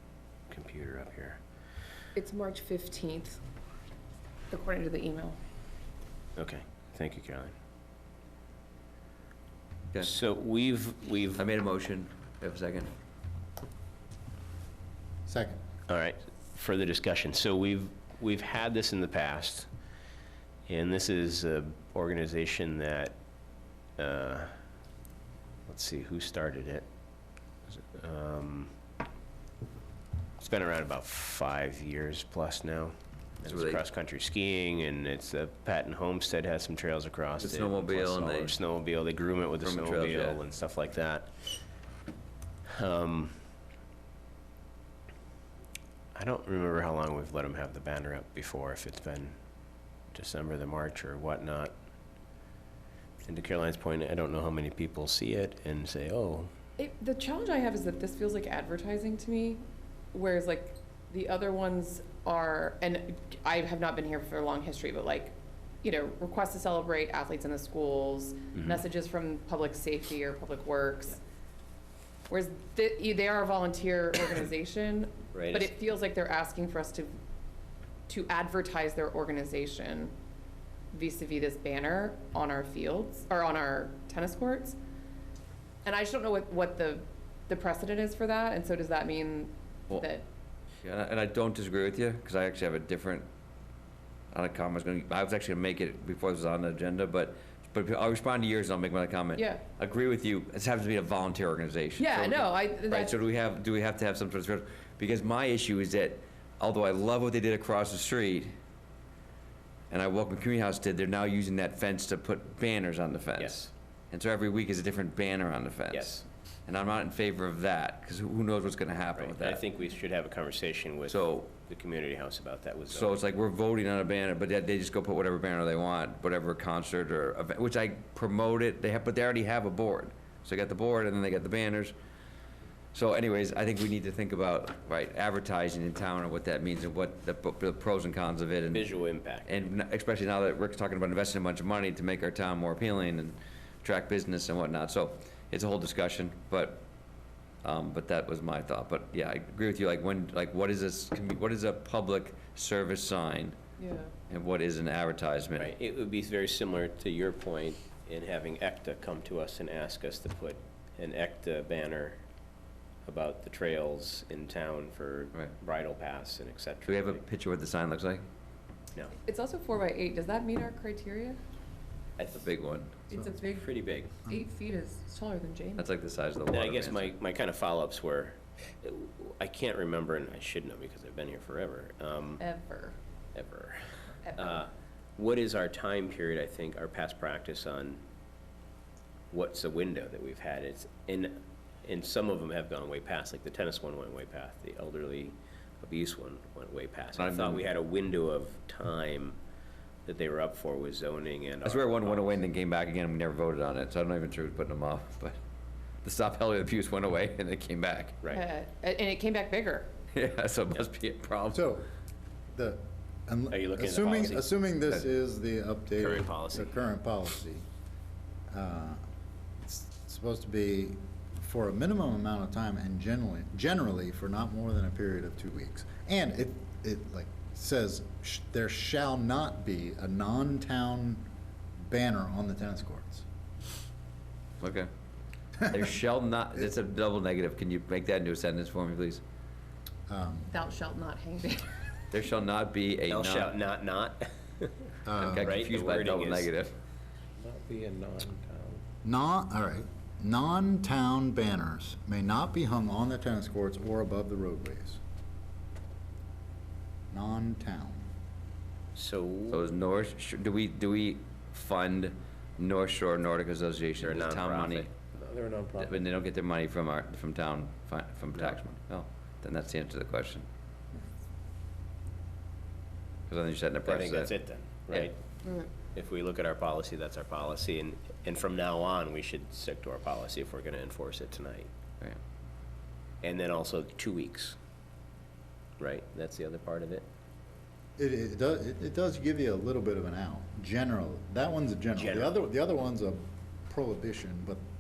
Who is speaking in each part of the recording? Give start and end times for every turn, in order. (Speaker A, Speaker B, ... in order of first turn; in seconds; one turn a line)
Speaker A: 0.5-1.4
Speaker B: 2.2-3.4
Speaker B: 4.5-5.4
Speaker A: 6.4-7.5
Speaker A: 10.0-11.4
Speaker C: 11.4-12.9
Speaker D: 15.3-15.6
Speaker A: 15.9-19.7
Speaker A: 20.7-23.1
Speaker A: 24.0-24.5
Speaker A: 25.7-26.9
Speaker A: 27.8-28.7
Speaker A: 30.4-41.3
Speaker C: 33.5-33.8
Speaker C: 37.4-38.6
Speaker C: 39.6-40.4
Speaker A: 42.7-43.4
Speaker A: 46.1-49.3
Speaker A: 50.1-51.7
Speaker A: 53.2-56.5
Speaker B: 56.8-59.6
Speaker B: 60.1-71.2
Speaker B: 72.3-77.1
Speaker A: 75.3-75.7
Speaker B: 78.1-80.1
Speaker B: 80.9-84.8
Speaker B: 85.8-90.2
Speaker C: 90.8-93.3
Speaker C: 94.3-108.5
Speaker B: 99.4-99.6
Speaker B: 102.0-103.2
Speaker C: 109.9-119.6
Speaker A: 113.4-113.7
Speaker A: 115.9-116.2
Speaker A: 119.2-123.2
Speaker C: 121.1-121.5
Speaker C: 122.9-131.9
Speaker C: 132.9-138.9
Speaker A: 138.7-139.6
Speaker C: 139.5-146.8
Speaker C: 147.6-153.6
Speaker B: 153.8-154.1
Speaker C: 154.3-155.7
Speaker A: 155.6-162.2
Speaker A: 163.1-167.2
Speaker C: 166.9-168.2
Speaker B: 169.3-171.4
Speaker C: 172.3-173.0
Speaker B: 173.1-173.7
Speaker A: 173.6-174.2
Speaker B: 174.3-175.9
Speaker C: 175.8-177.1
Speaker A: 176.5-182.4
Speaker B: 182.4-183.0
Speaker A: 183.3-188.0
Speaker B: 184.3-184.6
Speaker A: 189.3-199.4
Speaker C: 197.2-197.7
Speaker A: 200.1-202.4
Speaker C: 201.7-205.4
Speaker C: 206.0-208.2
Speaker B: 208.3-209.9
Speaker C: 210.1-211.7
Speaker D: 211.5-211.9
Speaker D: 212.5-217.7
Speaker A: 213.5-214.5
Speaker A: 216.0-216.8
Speaker D: 218.5-219.0
Speaker D: 219.6-231.3
Speaker D: 231.9-233.2
Speaker C: 234.6-234.9
Speaker C: 235.6-239.2
Speaker D: 240.1-240.5
Speaker B: 240.5-241.8
Speaker C: 242.1-243.6
Speaker A: 243.1-246.5
Speaker D: 245.1-245.6
Speaker C: 245.2-246.8
Speaker A: 247.4-248.8
Speaker D: 249.0-255.0
Speaker D: 257.1-258.1
Speaker A: 258.9-259.7
Speaker C: 259.5-264.9
Speaker A: 264.0-266.0
Speaker C: 265.8-270.5
Speaker C: 273.3-274.3
Speaker A: 273.9-275.2
Speaker A: 275.8-281.7
Speaker A: 283.2-284.6
Speaker A: 285.8-287.1
Speaker D: 288.0-294.6
Speaker A: 292.0-292.4